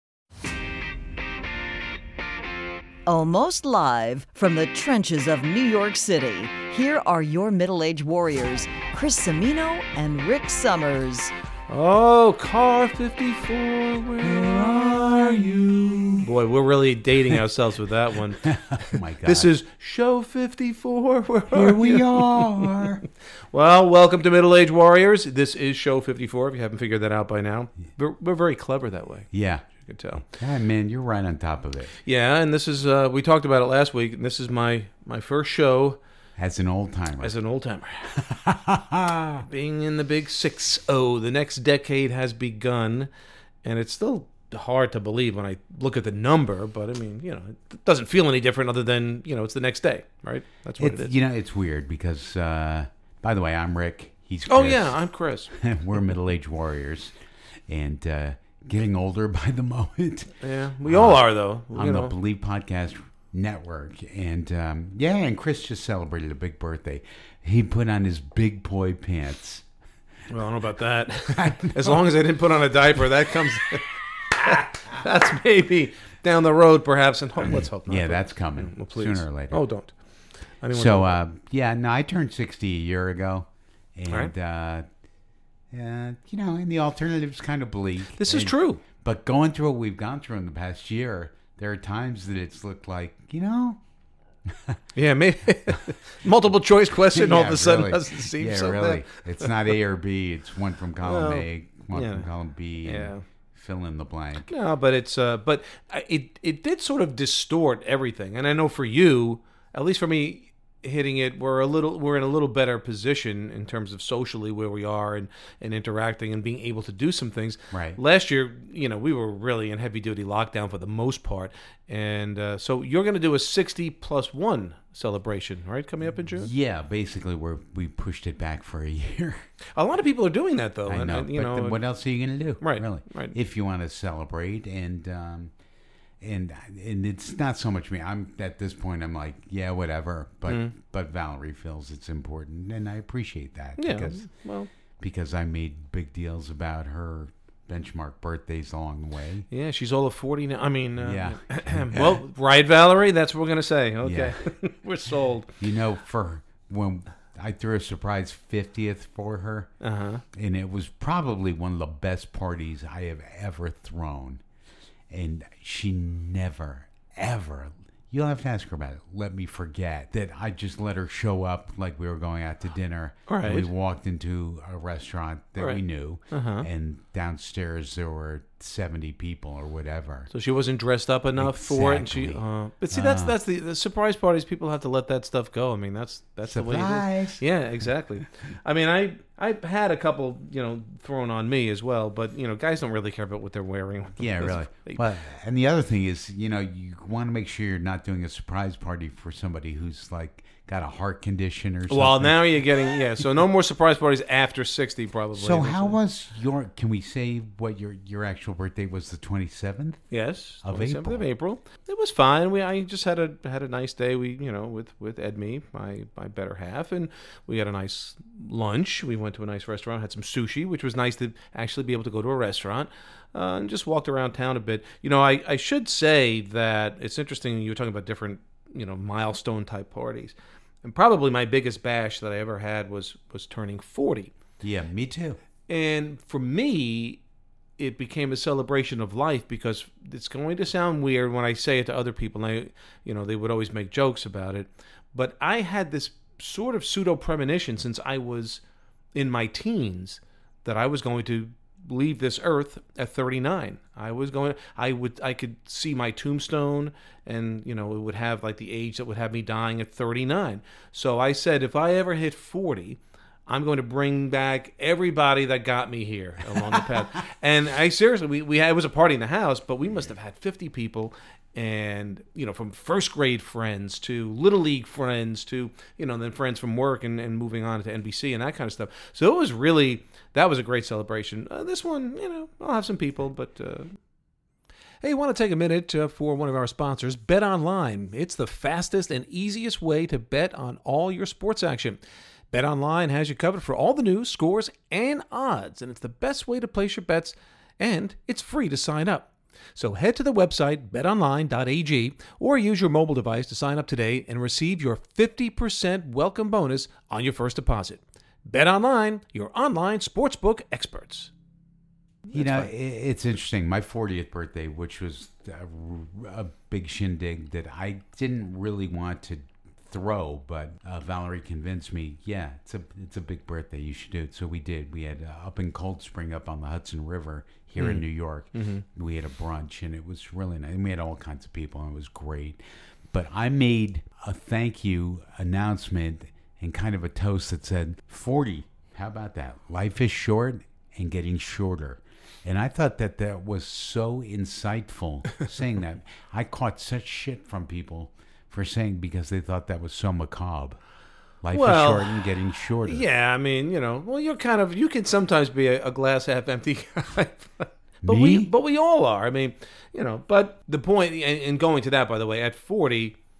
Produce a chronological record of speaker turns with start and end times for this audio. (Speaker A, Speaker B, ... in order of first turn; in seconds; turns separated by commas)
Speaker A: 3.1-11.3, Speaker B: 11.7-15.5, Speaker C: 14.2-16.3, Speaker B: 16.2-22.8, Speaker C: 18.4-19.5, Speaker C: 21.5-23.0, Speaker B: 23.5-30.3, Speaker C: 29.3-29.7, Speaker C: 30.2-31.9, Speaker B: 32.0-36.0, Speaker C: 36.4-37.4, Speaker B: 37.2-38.1, Speaker C: 38.1-39.4, Speaker B: 39.4-43.1, Speaker B: 43.6-51.1, Speaker C: 50.8-57.2, Speaker B: 54.5-55.6, Speaker C: 57.7-69.7, Speaker B: 60.4-62.1, Speaker B: 70.3-80.0, Speaker C: 71.4-72.0, Speaker C: 77.4-79.6, Speaker B: 80.5-81.2, Speaker C: 80.7-84.9, Speaker C: 85.7-93.8, Speaker B: 88.2-88.8, Speaker C: 94.5-94.8, Speaker B: 95.0-99.5, Speaker C: 97.1-104.5, Speaker B: 101.0-102.3, Speaker B: 102.8-103.2, Speaker B: 104.5-126.5, Speaker C: 117.7-118.0, Speaker C: 126.4-129.5, Speaker B: 129.8-131.8, Speaker C: 130.9-135.5, Speaker B: 132.6-133.3, Speaker C: 136.2-144.3, Speaker B: 140.5-140.7, Speaker B: 143.8-144.7, Speaker C: 145.0-149.5, Speaker B: 149.5-155.5, Speaker C: 151.0-152.2, Speaker C: 154.0-154.4, Speaker C: 155.6-159.7, Speaker B: 159.8-160.2, Speaker C: 160.3-164.4, Speaker C: 165.1-180.3, Speaker B: 173.3-173.7, Speaker B: 175.6-176.7, Speaker B: 180.3-195.0, Speaker C: 181.4-183.3, Speaker C: 186.5-187.4, Speaker C: 194.2-202.4, Speaker B: 201.9-206.0, Speaker C: 205.3-210.1, Speaker B: 210.1-234.3, Speaker C: 210.6-211.3, Speaker C: 234.6-235.4, Speaker B: 235.7-237.2, Speaker B: 237.8-248.6, Speaker B: 249.2-284.0, Speaker B: 285.0-292.0, Speaker B: 292.5-311.3, Speaker B: 312.3-312.7, Speaker C: 312.3-350.8, Speaker B: 327.8-328.8, Speaker C: 351.4-353.1, Speaker B: 351.5-352.2, Speaker B: 352.9-363.2, Speaker C: 358.0-358.5